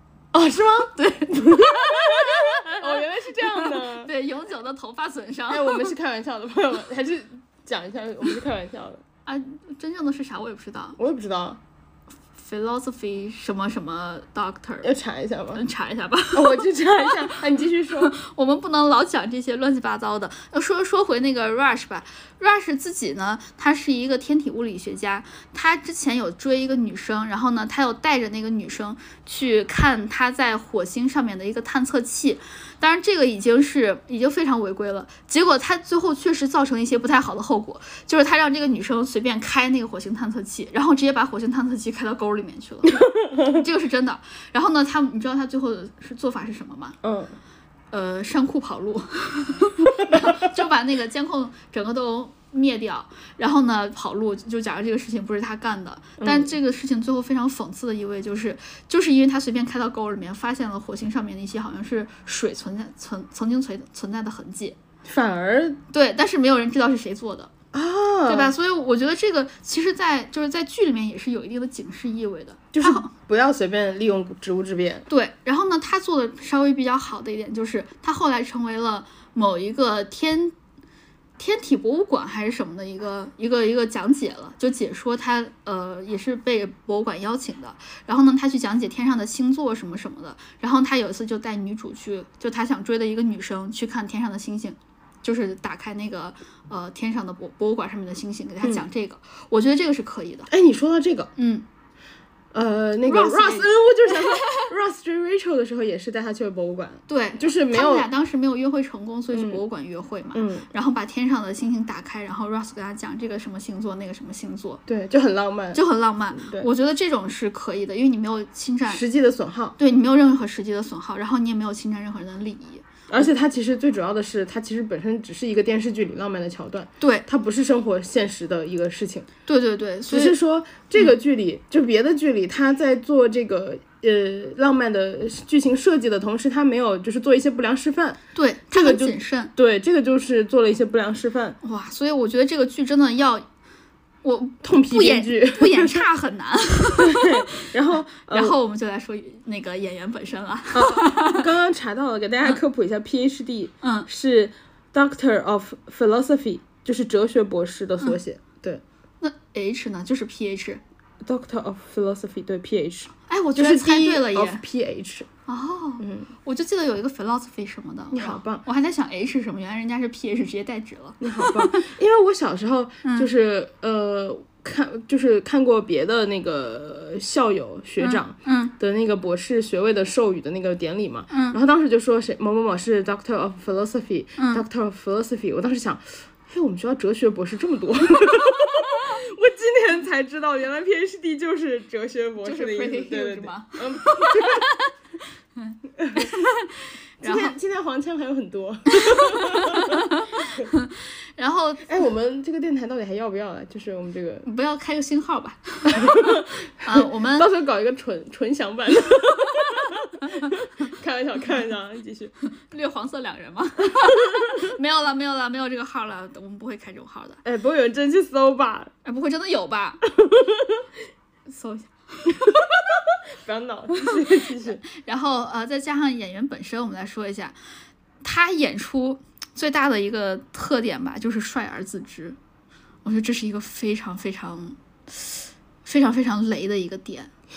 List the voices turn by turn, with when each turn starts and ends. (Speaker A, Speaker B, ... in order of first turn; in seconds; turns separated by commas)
Speaker A: 0.3-4.1, Speaker B: 0.9-5.9, Speaker A: 5.5-9.0, Speaker B: 9.2-11.0, Speaker A: 11.0-11.6, Speaker B: 12.3-14.9, Speaker A: 14.8-15.6, Speaker B: 15.5-17.4, Speaker A: 16.3-18.1, Speaker B: 17.9-47.0, Speaker A: 43.0-43.5, Speaker A: 47.0-47.3, Speaker B: 47.9-64.8, Speaker A: 50.1-50.3, Speaker A: 56.2-56.5, Speaker A: 65.0-65.8, Speaker B: 65.9-67.5, Speaker A: 67.7-68.5, Speaker B: 68.3-73.1, Speaker A: 72.7-75.0, Speaker B: 75.1-80.5, Speaker B: 81.4-100.5, Speaker A: 100.5-101.3, Speaker B: 101.4-101.6, Speaker A: 102.5-108.1, Speaker B: 103.0-104.7, Speaker B: 107.1-114.8, Speaker A: 109.3-109.6, Speaker A: 110.3-110.7, Speaker A: 114.9-115.8, Speaker B: 115.7-119.0, Speaker A: 116.3-116.7, Speaker A: 118.9-119.8, Speaker B: 119.8-123.2, Speaker A: 123.1-129.3, Speaker B: 127.0-127.2, Speaker B: 129.4-130.3, Speaker A: 130.1-138.2, Speaker B: 138.3-139.5, Speaker A: 138.7-141.6, Speaker B: 141.6-143.4, Speaker B: 144.2-151.4, Speaker A: 144.6-146.1, Speaker A: 147.0-148.6, Speaker A: 150.7-158.8, Speaker B: 153.8-154.1, Speaker B: 159.2-160.8, Speaker A: 161.2-165.3, Speaker B: 163.3-164.6, Speaker B: 165.5-171.9, Speaker A: 166.0-166.3, Speaker A: 168.1-168.6, Speaker A: 171.2-194.7, Speaker B: 173.0-173.3, Speaker B: 178.0-178.7, Speaker B: 181.3-181.6, Speaker B: 184.4-184.6, Speaker B: 192.4-194.9, Speaker B: 195.6-197.5, Speaker A: 196.0-196.3, Speaker A: 197.2-200.7, Speaker B: 198.9-201.9, Speaker A: 201.8-204.4, Speaker B: 204.4-207.5, Speaker A: 205.9-212.3, Speaker B: 209.5-210.5, Speaker B: 212.6-217.4, Speaker A: 214.0-214.4, Speaker A: 217.4-218.9, Speaker B: 219.0-220.0, Speaker A: 220.1-220.8, Speaker B: 221.5-222.8, Speaker A: 222.5-224.8, Speaker B: 223.9-224.2, Speaker B: 224.8-227.5, Speaker B: 228.2-232.4, Speaker B: 233.0-235.3, Speaker B: 235.8-237.3